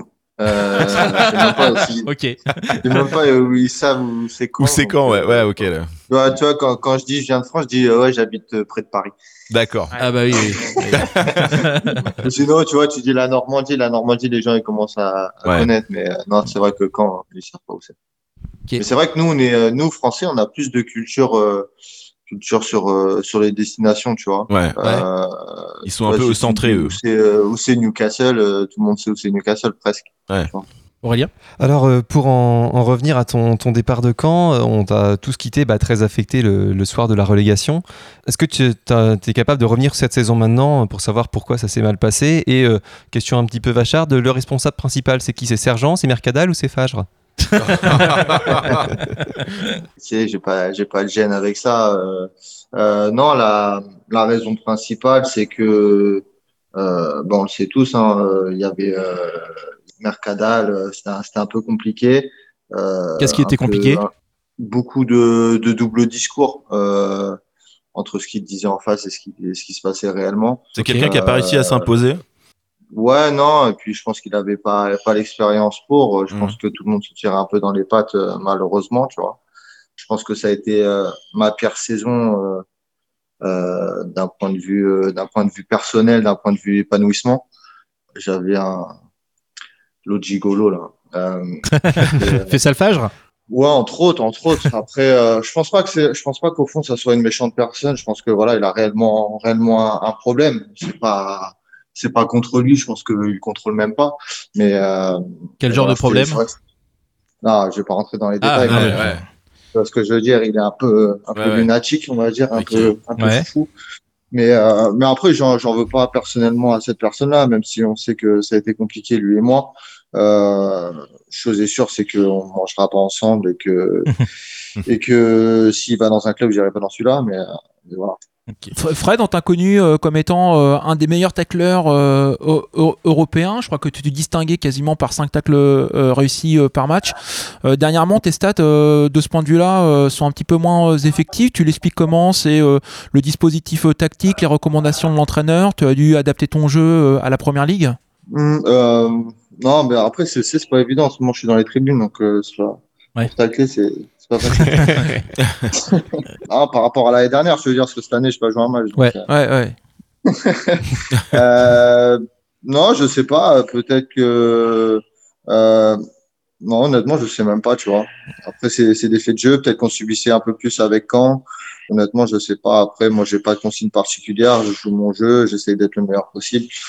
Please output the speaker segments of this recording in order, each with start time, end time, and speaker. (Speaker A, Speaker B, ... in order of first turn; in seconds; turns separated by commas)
Speaker A: 0.4-2.1, Speaker B: 0.9-3.1, Speaker A: 2.8-9.1, Speaker C: 4.6-5.9, Speaker C: 9.5-9.9, Speaker B: 10.0-12.1, Speaker A: 10.5-10.8, Speaker C: 10.9-11.4, Speaker A: 12.1-17.9, Speaker A: 18.8-21.7, Speaker A: 22.3-30.7, Speaker C: 24.5-24.8, Speaker C: 25.9-27.0, Speaker B: 31.0-31.3, Speaker D: 31.6-47.1, Speaker B: 47.5-48.2, Speaker C: 47.8-48.7, Speaker A: 50.0-56.2, Speaker A: 56.8-67.4, Speaker B: 63.2-64.0, Speaker A: 68.0-71.8, Speaker C: 70.8-72.2, Speaker A: 72.9-79.4, Speaker C: 76.3-76.6, Speaker A: 80.0-82.6, Speaker A: 83.4-87.5, Speaker A: 88.2-88.9, Speaker A: 90.0-91.6, Speaker B: 91.8-93.1, Speaker A: 92.1-92.6, Speaker A: 93.5-106.5, Speaker B: 105.6-106.4, Speaker A: 107.4-109.1, Speaker B: 108.4-109.3, Speaker C: 108.6-109.2, Speaker A: 109.8-113.7, Speaker C: 111.3-111.7, Speaker C: 112.6-113.0, Speaker B: 113.2-113.5, Speaker A: 114.3-124.2, Speaker A: 124.9-128.2, Speaker E: 128.8-148.0, Speaker A: 148.3-155.1, Speaker B: 154.6-155.1, Speaker A: 155.8-159.3, Speaker E: 159.3-159.8, Speaker A: 160.3-166.0, Speaker A: 166.6-176.7